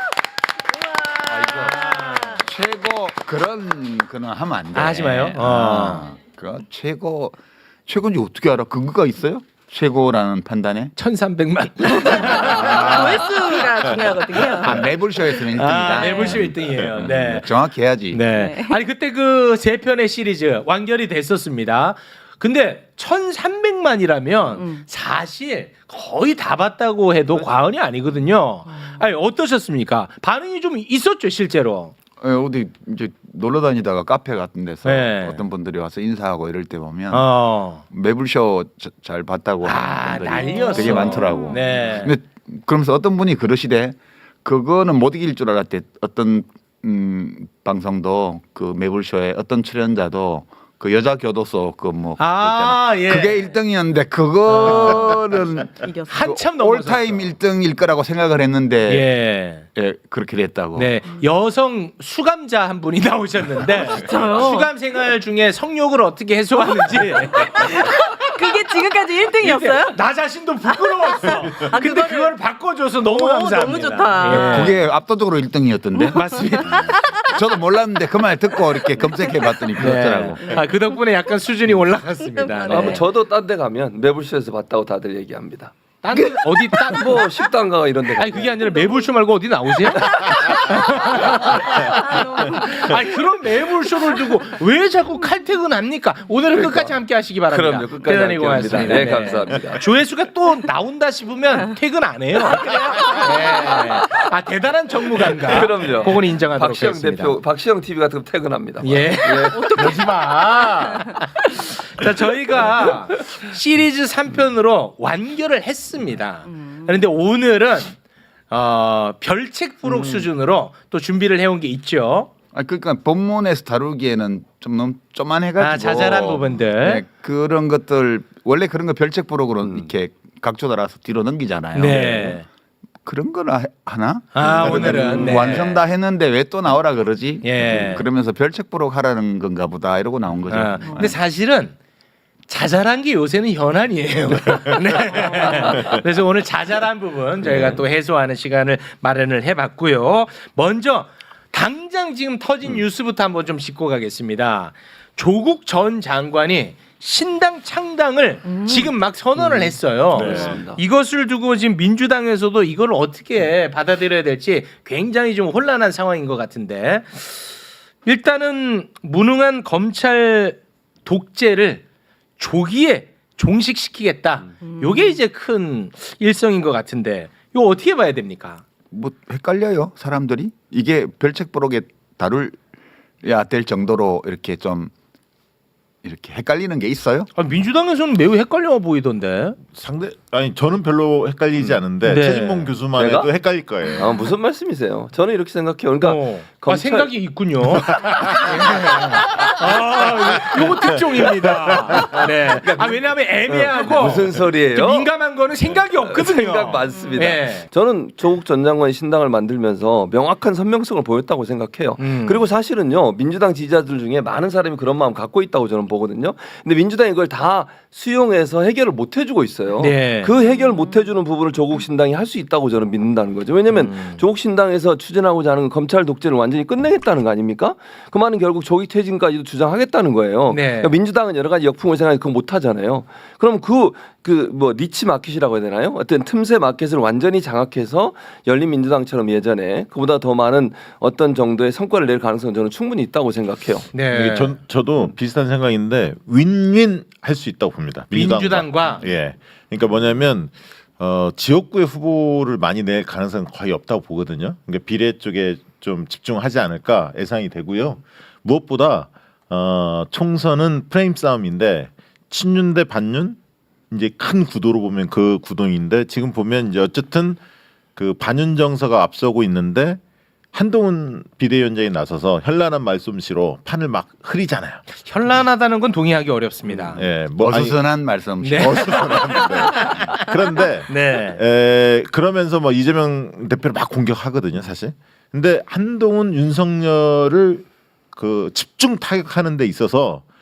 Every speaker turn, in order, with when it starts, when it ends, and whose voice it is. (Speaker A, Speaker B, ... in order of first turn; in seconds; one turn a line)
Speaker A: 1.2-10.9
Speaker B: 1.4-2.4
Speaker C: 1.7-2.2
Speaker B: 4.8-6.1
Speaker B: 11.0-14.9
Speaker C: 11.9-14.8
Speaker A: 12.4-13.2
Speaker A: 14.6-18.2
Speaker B: 15.5-17.5
Speaker C: 15.8-16.4
Speaker D: 16.6-17.3
Speaker B: 18.1-31.9
Speaker C: 18.3-18.8
Speaker C: 24.6-24.9
Speaker C: 28.7-29.0
Speaker A: 32.2-37.3
Speaker B: 34.9-35.4
Speaker B: 37.1-37.8
Speaker A: 37.8-59.1
Speaker B: 39.6-42.2
Speaker C: 40.4-41.7
Speaker B: 52.2-53.5
Speaker B: 54.5-55.0
Speaker C: 54.6-56.3
Speaker B: 56.1-57.3
Speaker B: 58.9-59.6
Speaker A: 59.8-60.9
Speaker B: 60.8-68.2
Speaker C: 63.6-64.7
Speaker C: 67.0-70.0
Speaker B: 69.4-74.8
Speaker C: 70.7-72.4
Speaker C: 73.1-74.8
Speaker A: 74.2-80.6
Speaker C: 76.0-77.4
Speaker B: 76.1-77.1
Speaker C: 78.6-79.7
Speaker B: 79.8-83.0
Speaker C: 80.4-81.0
Speaker C: 82.4-83.0
Speaker E: 82.7-85.7
Speaker B: 86.0-87.2
Speaker A: 86.1-86.4
Speaker E: 86.6-88.7
Speaker B: 88.2-107.4
Speaker E: 89.9-90.3
Speaker C: 90.3-93.0
Speaker E: 96.5-99.9
Speaker C: 102.4-104.2
Speaker E: 105.4-110.1
Speaker B: 108.8-118.0
Speaker C: 109.5-111.4
Speaker C: 116.5-117.0
Speaker B: 118.5-122.3
Speaker E: 119.8-120.3
Speaker A: 122.5-132.4
Speaker B: 125.6-127.0
Speaker E: 129.6-129.9
Speaker B: 131.7-132.4
Speaker A: 133.1-141.2
Speaker B: 134.3-135.8
Speaker E: 134.4-135.4
Speaker B: 137.4-138.0
Speaker B: 140.5-141.8
Speaker C: 140.9-141.2
Speaker B: 142.5-167.5
Speaker C: 145.2-145.8
Speaker E: 147.4-147.8
Speaker C: 158.5-158.9
Speaker E: 159.4-160.8
Speaker D: 160.1-160.5
Speaker B: 168.1-171.8
Speaker B: 172.4-178.6
Speaker C: 174.7-175.2
Speaker A: 178.9-182.6
Speaker A: 183.2-184.9
Speaker A: 186.0-187.3
Speaker B: 187.3-189.6
Speaker D: 189.7-194.1
Speaker B: 192.0-192.7
Speaker E: 192.9-193.3
Speaker E: 193.9-197.2
Speaker B: 196.0-207.7
Speaker E: 202.2-243.9
Speaker B: 212.0-212.5
Speaker B: 219.8-220.3
Speaker C: 220.4-221.1
Speaker B: 223.7-224.2
Speaker B: 230.5-230.9
Speaker B: 243.9-244.6
Speaker D: 244.1-263.4
Speaker B: 248.1-249.0
Speaker D: 263.9-267.4
Speaker D: 268.0-270.0
Speaker D: 270.5-274.8
Speaker B: 274.9-277.0
Speaker D: 276.9-277.8
Speaker A: 277.4-279.2
Speaker B: 278.4-280.2
Speaker D: 278.6-290.2
Speaker B: 280.9-281.4